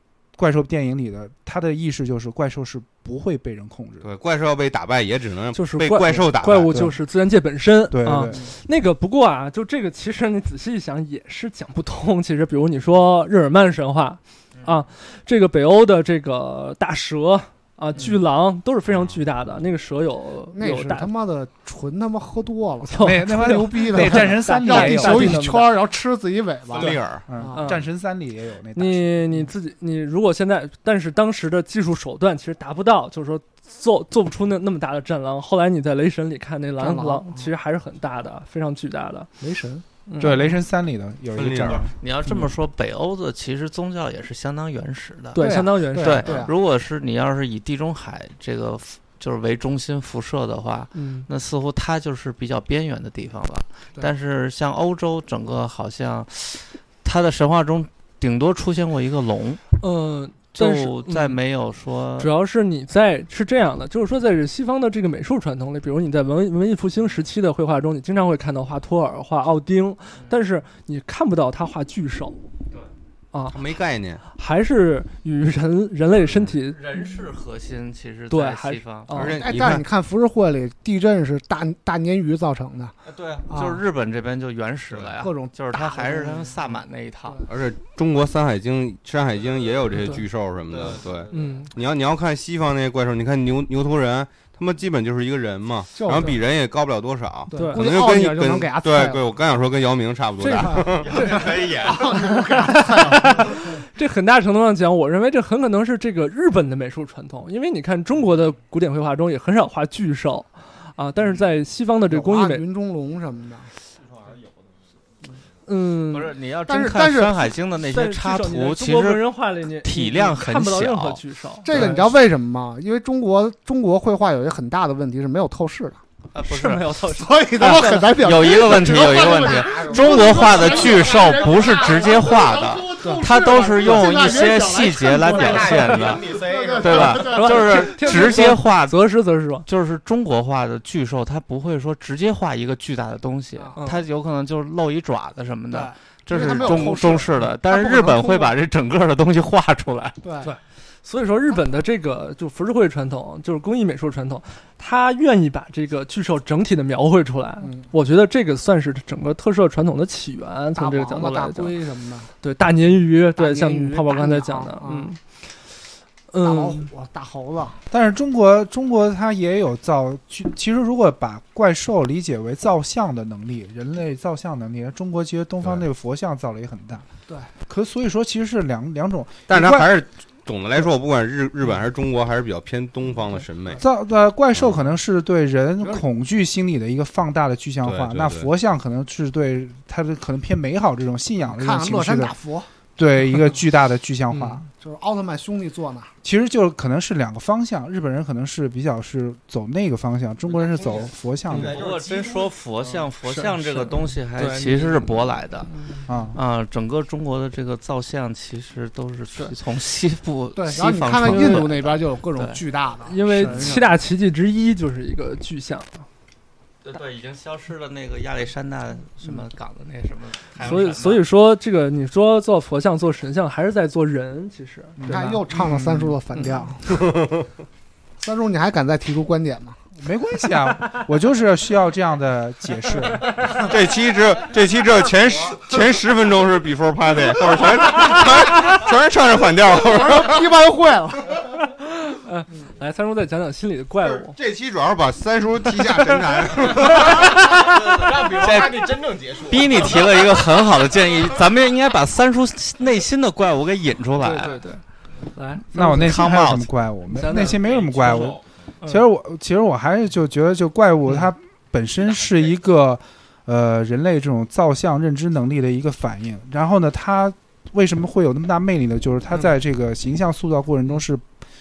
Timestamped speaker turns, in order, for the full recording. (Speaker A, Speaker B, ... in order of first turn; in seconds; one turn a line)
Speaker A: 0.4-4.1
Speaker B: 4.0-6.8
Speaker C: 5.5-21.1
Speaker A: 6.7-7.0
Speaker A: 7.9-8.4
Speaker D: 20.5-27.7
Speaker C: 22.9-25.8
Speaker A: 23.0-25.4
Speaker B: 26.7-27.2
Speaker A: 27.3-29.2
Speaker C: 27.5-27.8
Speaker C: 28.8-39.3
Speaker D: 36.8-37.5
Speaker D: 39.4-39.9
Speaker C: 40.1-40.6
Speaker A: 40.2-42.0
Speaker B: 41.3-41.9
Speaker E: 41.4-59.6
Speaker C: 45.3-46.5
Speaker D: 45.4-46.5
Speaker C: 51.0-51.3
Speaker C: 59.8-61.4
Speaker E: 60.5-62.3
Speaker C: 62.2-72.4
Speaker C: 73.3-73.6
Speaker B: 73.5-74.2
Speaker C: 74.3-76.8
Speaker E: 76.5-79.3
Speaker C: 78.3-79.4
Speaker B: 79.1-79.8
Speaker D: 79.4-83.0
Speaker E: 83.1-87.5
Speaker D: 83.5-83.8
Speaker D: 85.2-87.4
Speaker B: 87.5-101.4
Speaker F: 89.3-89.8
Speaker C: 90.0-90.2
Speaker F: 90.7-91.6
Speaker C: 91.3-91.7
Speaker D: 96.0-96.4
Speaker D: 97.5-99.2
Speaker C: 97.5-97.9
Speaker C: 100.4-101.5
Speaker D: 100.5-103.6
Speaker C: 102.3-112.7
Speaker D: 112.1-113.7
Speaker F: 113.9-115.5
Speaker C: 115.7-116.4
Speaker E: 116.1-121.2
Speaker D: 116.7-117.6
Speaker C: 117.9-122.1
Speaker D: 121.7-126.0
Speaker E: 126.3-127.0
Speaker C: 126.4-128.1
Speaker D: 127.2-137.8
Speaker E: 127.6-139.1
Speaker F: 128.7-132.6
Speaker F: 135.1-137.5
Speaker C: 137.2-139.7
Speaker E: 139.6-150.2
Speaker C: 143.8-144.0
Speaker D: 145.7-148.6
Speaker D: 150.2-150.5
Speaker C: 150.4-161.8
Speaker D: 157.6-157.9
Speaker D: 160.8-162.3
Speaker C: 162.4-165.5
Speaker D: 163.4-165.1
Speaker C: 166.3-166.9
Speaker D: 166.4-167.8
Speaker A: 167.9-177.1
Speaker A: 177.7-179.9
Speaker B: 179.5-183.8
Speaker A: 183.8-192.3
Speaker B: 184.6-184.9
Speaker B: 187.8-188.5
Speaker D: 191.5-192.7
Speaker A: 193.0-194.7
Speaker C: 194.3-194.6
Speaker D: 194.8-196.1
Speaker A: 196.2-201.8
Speaker F: 200.5-203.0
Speaker E: 201.6-205.7
Speaker C: 203.2-206.1
Speaker A: 206.1-206.4
Speaker E: 206.3-212.6
Speaker D: 210.6-213.9
Speaker C: 211.2-211.7
Speaker C: 213.1-216.1
Speaker E: 216.8-221.3
Speaker C: 220.6-225.4
Speaker A: 225.0-226.1
Speaker D: 225.0-227.1
Speaker D: 228.2-229.8
Speaker A: 230.0-233.5
Speaker B: 233.6-240.5
Speaker D: 239.8-241.4
Speaker C: 241.9-244.3
Speaker B: 244.2-247.3
Speaker F: 246.6-250.6
Speaker E: 248.3-248.9
Speaker E: 249.5-254.6
Speaker C: 254.2-254.8
Speaker C: 255.3-256.1
Speaker A: 255.7-271.2
Speaker E: 256.1-256.5
Speaker C: 257.1-257.6
Speaker F: 257.5-258.6